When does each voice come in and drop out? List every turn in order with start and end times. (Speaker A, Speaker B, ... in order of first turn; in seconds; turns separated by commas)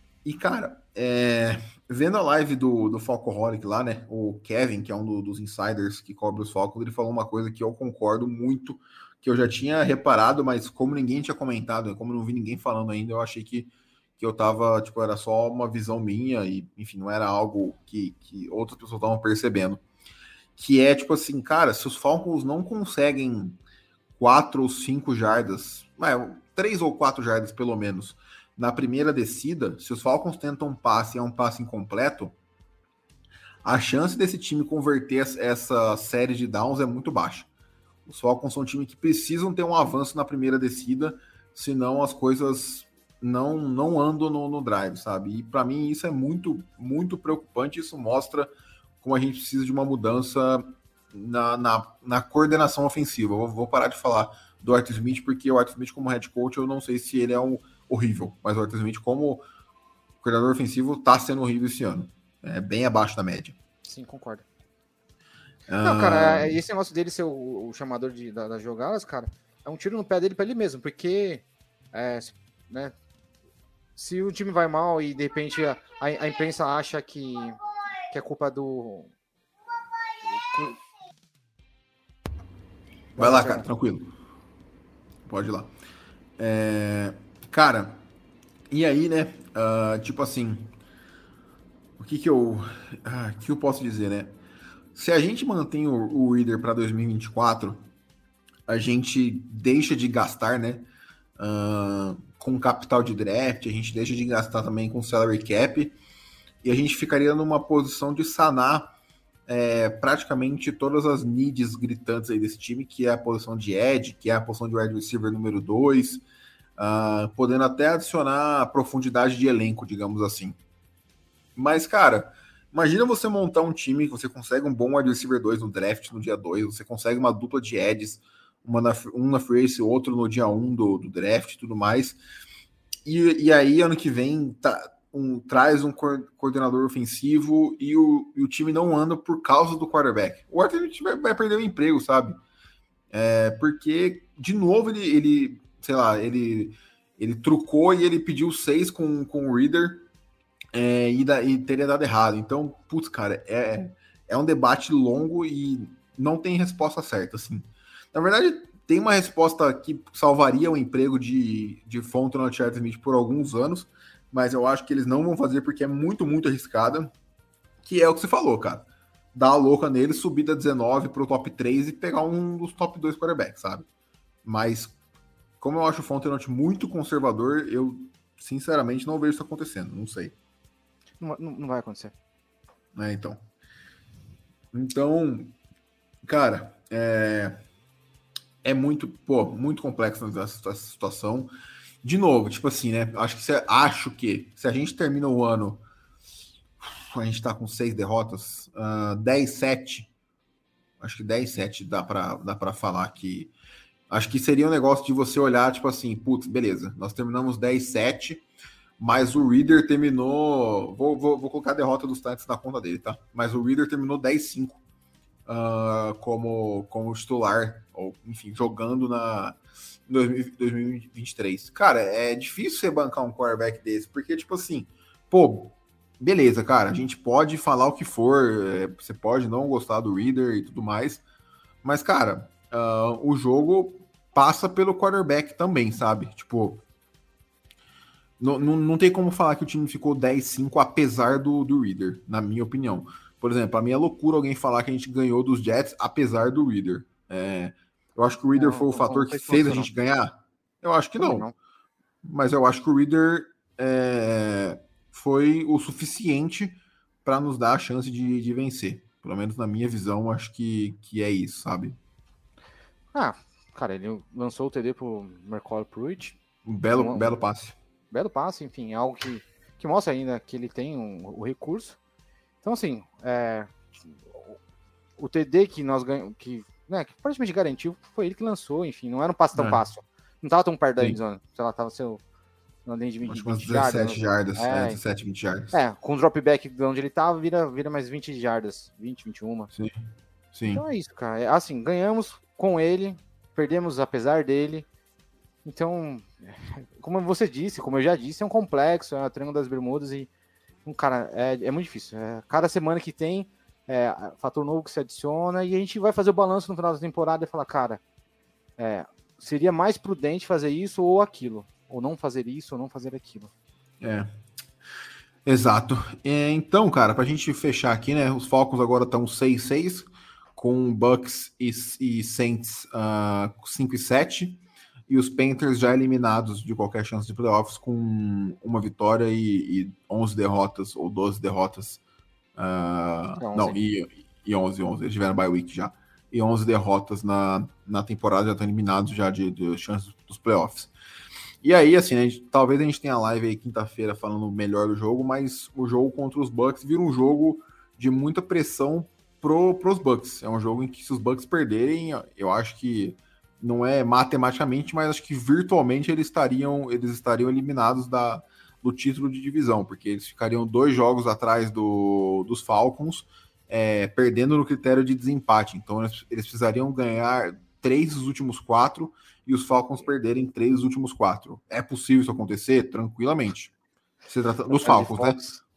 Speaker A: 0.2-19.8, Speaker A: 20.6-23.6, Speaker A: 24.2-32.4, Speaker A: 33.6-37.5, Speaker A: 38.1-48.5, Speaker A: 49.0-59.4, Speaker A: 60.2-63.6, Speaker B: 63.9-64.5, Speaker A: 65.7-66.6, Speaker B: 65.8-73.0, Speaker B: 74.0-77.6, Speaker B: 78.1-79.1, Speaker B: 80.3-80.8, Speaker B: 83.2-83.7, Speaker A: 83.2-84.1, Speaker A: 85.3-85.7, Speaker A: 86.4-88.0, Speaker A: 88.7-90.7, Speaker A: 92.0-94.4, Speaker A: 95.0-97.9, Speaker A: 98.7-106.0, Speaker A: 106.6-108.9, Speaker A: 109.5-116.2, Speaker A: 116.8-120.6, Speaker A: 121.6-132.2, Speaker A: 133.1-142.4, Speaker A: 143.1-150.1, Speaker A: 150.7-167.1, Speaker A: 167.8-173.9, Speaker A: 174.4-175.0, Speaker A: 175.6-180.3, Speaker B: 181.2-182.1, Speaker A: 182.9-183.4, Speaker A: 184.7-185.5, Speaker A: 186.2-187.6, Speaker A: 188.6-191.5, Speaker A: 192.0-195.8, Speaker A: 196.8-200.1, Speaker A: 201.0-203.5, Speaker A: 204.1-208.4, Speaker A: 209.0-214.8, Speaker A: 215.5-231.2, Speaker A: 231.8-236.8, Speaker A: 238.4-251.5, Speaker B: 248.6-249.9, Speaker B: 251.2-251.5, Speaker A: 252.2-262.0, Speaker B: 263.1-266.4, Speaker A: 266.6-267.8, Speaker B: 266.9-267.3, Speaker B: 268.1-272.0, Speaker B: 272.6-273.7, Speaker B: 274.3-274.6, Speaker B: 275.2-282.2, Speaker A: 279.6-279.8, Speaker B: 282.9-285.0, Speaker A: 283.2-285.7, Speaker B: 285.7-289.7, Speaker A: 289.7-290.8, Speaker B: 290.7-294.9, Speaker B: 295.6-300.3, Speaker B: 300.9-308.0, Speaker B: 308.8-313.5, Speaker A: 314.0-314.3, Speaker A: 315.4-332.0, Speaker A: 332.6-340.9, Speaker B: 333.4-333.8, Speaker A: 341.6-373.7, Speaker A: 374.3-375.4, Speaker B: 374.7-375.6